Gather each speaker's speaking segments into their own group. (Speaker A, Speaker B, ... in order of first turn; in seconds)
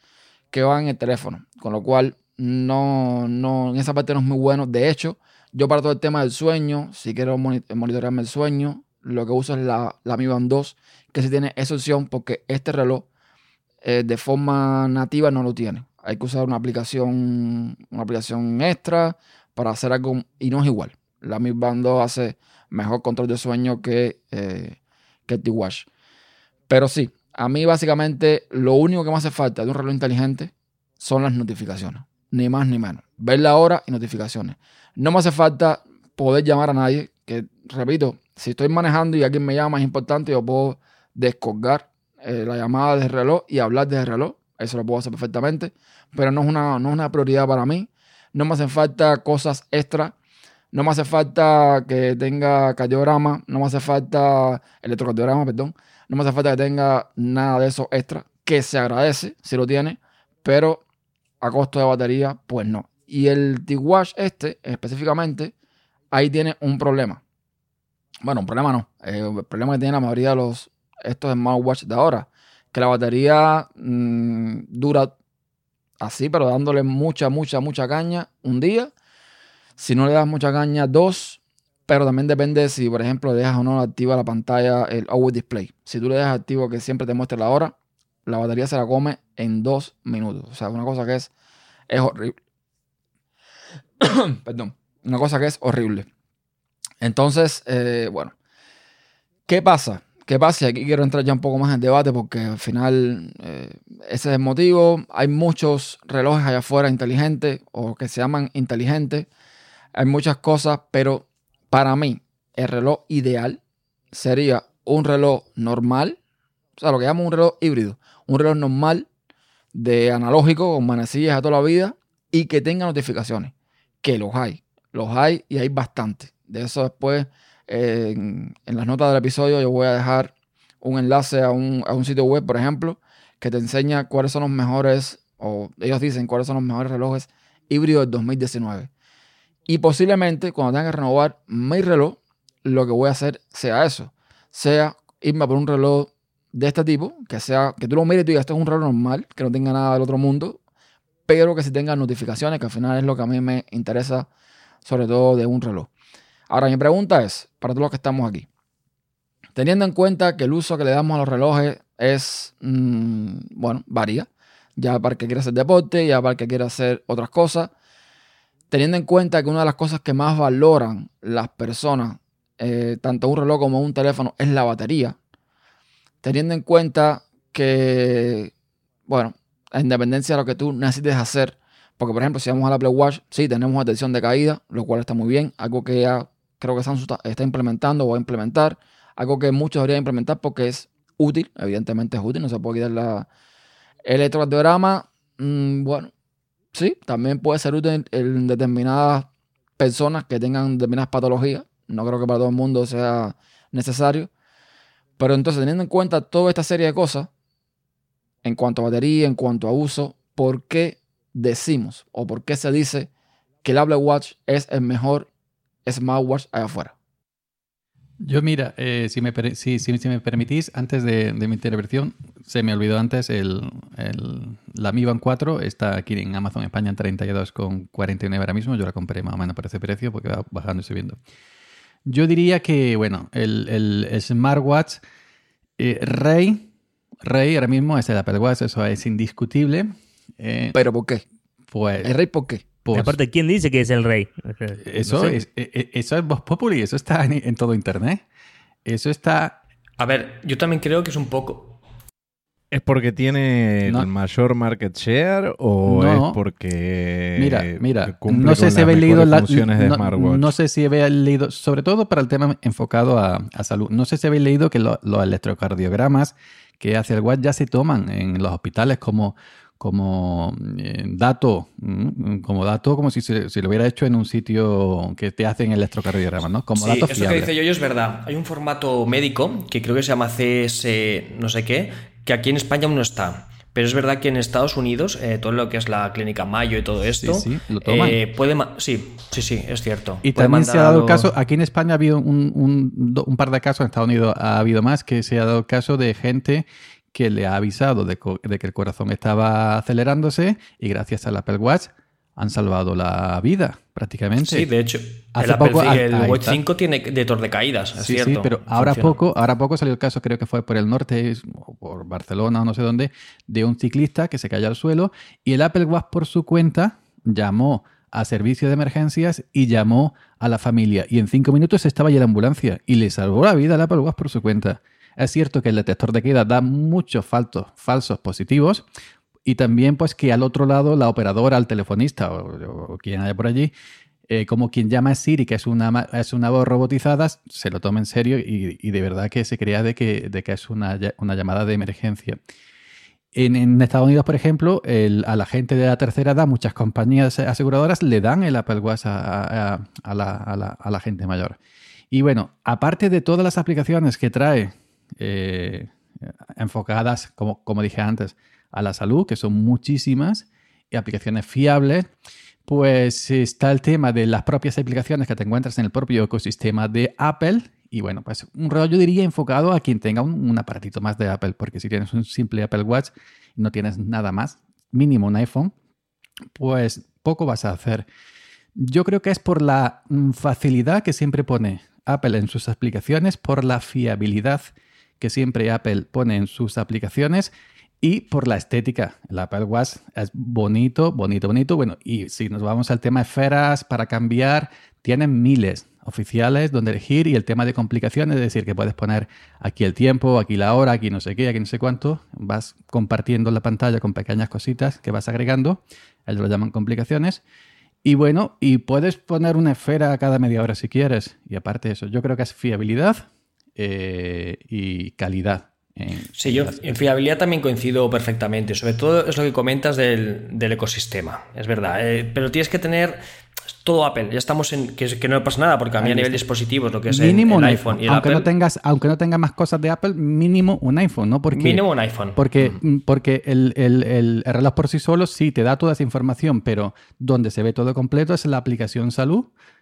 Speaker A: 0.5-13.1, 13.8-24.8, 25.3-25.9, 26.7-50.1, 50.7-60.8, 61.4-65.5, 66.1-67.2, 68.2-75.1, 76.0-78.9, 79.8-87.7, 88.2-91.3, 91.9-92.4, 94.0-96.1, 97.0-98.3, 99.5-109.3, 109.9-113.6, 114.1-116.2, 116.8-119.1, 119.7-123.5, 124.0-138.9, 139.7-150.6, 151.3-154.3, 154.8-155.9, 156.5-158.5, 159.6-167.7, 168.7-175.2, 176.2-178.5, 179.1-193.3, 194.0-196.1, 196.7-204.3, 205.2-207.3, 208.4-213.1, 213.6-215.3, 215.8-216.9, 240.7-241.2, 242.0-242.6
Speaker B: 218.2-231.2, 232.0-235.0, 235.8-236.7, 237.2-240.8, 241.7-242.1, 242.8-243.2, 244.8-248.2, 248.8-249.6, 255.8-256.4, 257.4-277.5, 287.2-288.2, 290.2-304.7, 305.3-306.6, 308.0-328.9, 329.4-333.7, 334.3-342.4, 343.3-351.6, 352.1-362.1, 362.6-375.7, 376.5-378.1, 378.7-407.4, 408.0-416.8, 426.0-426.4, 427.1-439.5
Speaker C: 242.9-245.4
Speaker D: 250.0-251.8, 276.8-291.3, 304.4-309.2, 416.4-423.2, 423.8-428.5, 431.5-432.8
Speaker E: 252.7-260.5